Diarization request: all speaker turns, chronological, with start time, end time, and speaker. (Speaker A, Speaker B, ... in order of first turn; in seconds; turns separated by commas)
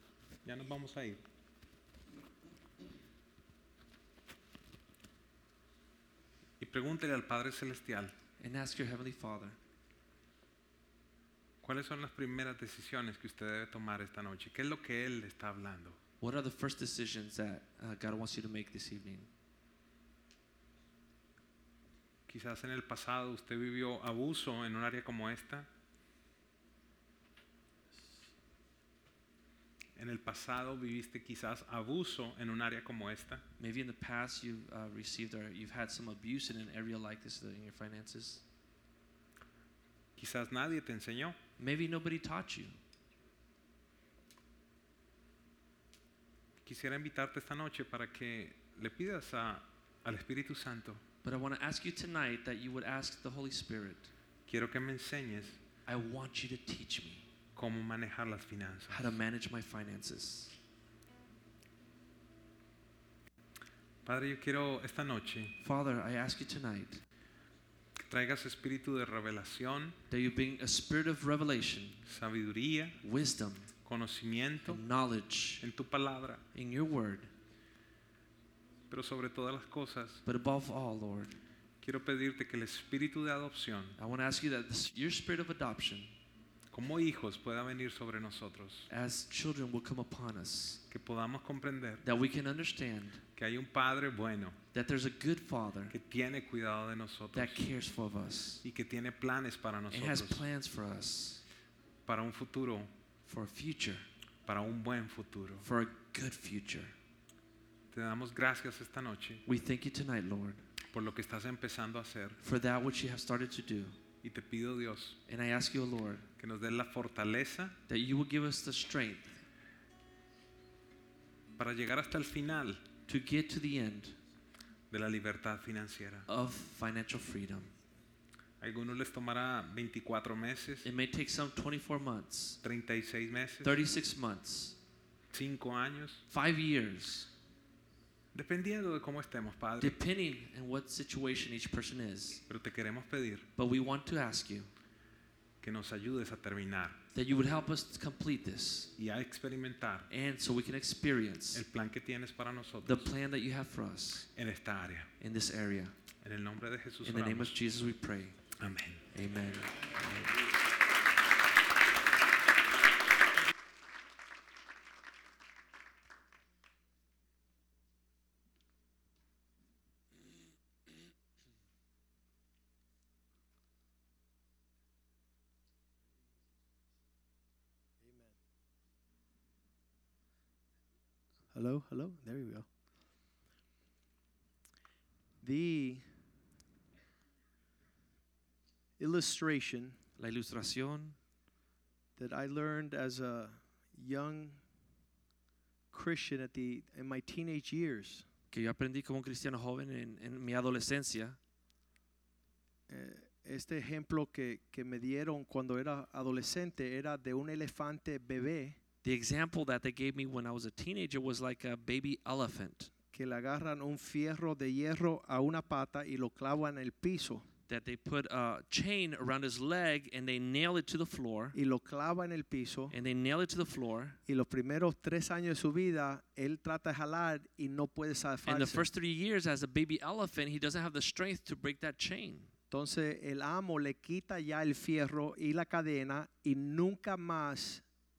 Speaker A: 0.5-1.2, Speaker A: 6.6-8.1, Speaker B: 8.4-9.6, Speaker A: 11.6-16.0, Speaker B: 16.2-19.3, Speaker A: 22.3-25.7, Speaker A: 30.0-33.4, Speaker B: 33.6-38.4, Speaker A: 40.2-41.4, Speaker B: 41.6-42.7, Speaker A: 46.6-51.0, Speaker B: 51.2-54.1, Speaker A: 54.5-55.6, Speaker B: 55.9-57.2, Speaker A: 57.5-59.2, Speaker B: 58.9-60.6, Speaker A: 64.0-65.6, Speaker B: 65.6-67.0, Speaker A: 68.0-70.0, Speaker B: 70.1-72.0, Speaker A: 72.1-73.0, Speaker B: 73.0-73.7, Speaker A: 73.8-74.8, Speaker B: 74.7-75.6, Speaker A: 75.6-76.4, Speaker B: 76.5-77.3, Speaker A: 78.9-80.2, Speaker B: 80.2-81.4, Speaker A: 81.8-84.0, Speaker B: 84.0-86.1, Speaker A: 86.7-88.9, Speaker B: 88.9-90.8, Speaker A: 90.9-92.0, Speaker B: 92.0-93.2, Speaker A: 93.4-94.6, Speaker B: 94.7-96.0, Speaker A: 95.9-97.7, Speaker B: 97.3-98.6, Speaker A: 98.6-100.5, Speaker B: 99.9-101.4, Speaker A: 102.0-102.9, Speaker B: 103.2-104.0, Speaker A: 104.5-105.7, Speaker B: 105.6-106.9, Speaker A: 107.9-109.4, Speaker B: 109.5-110.6, Speaker A: 110.9-112.4, Speaker B: 112.4-114.0, Speaker A: 114.2-115.2, Speaker B: 115.3-116.3, Speaker A: 116.4-117.8, Speaker B: 117.9-119.4, Speaker A: 121.6-122.8, Speaker B: 123.1-124.2, Speaker A: 124.9-126.3, Speaker B: 126.3-127.7, Speaker A: 128.6-130.8, Speaker B: 130.8-132.6, Speaker A: 132.6-133.8, Speaker B: 133.6-134.8, Speaker A: 135.3-136.2, Speaker B: 136.3-137.3, Speaker A: 138.3-140.0, Speaker B: 139.8-142.4, Speaker A: 142.5-143.5, Speaker B: 143.6-144.7, Speaker A: 145.6-147.0, Speaker B: 147.1-148.9, Speaker A: 149.0-150.1, Speaker B: 150.1-151.6, Speaker A: 151.5-153.1, Speaker B: 152.8-154.3, Speaker A: 154.3-155.1, Speaker B: 155.2-155.9, Speaker A: 156.2-157.6, Speaker B: 157.0-158.4, Speaker A: 158.6-159.1, Speaker B: 159.1-160.4, Speaker C: 178.0-178.3, Speaker C: 181.5-182.7, Speaker C: 185.4-186.1, Speaker C: 189.0-190.0, Speaker B: 190.2-191.2, Speaker C: 192.2-194.6, Speaker C: 195.9-198.3, Speaker B: 198.5-201.4, Speaker C: 202.9-208.8, Speaker B: 209.0-212.9, Speaker C: 213.1-217.5, Speaker B: 217.7-221.6, Speaker C: 221.5-222.9, Speaker B: 222.9-224.2, Speaker C: 224.3-228.9, Speaker B: 228.4-232.5, Speaker C: 232.7-237.8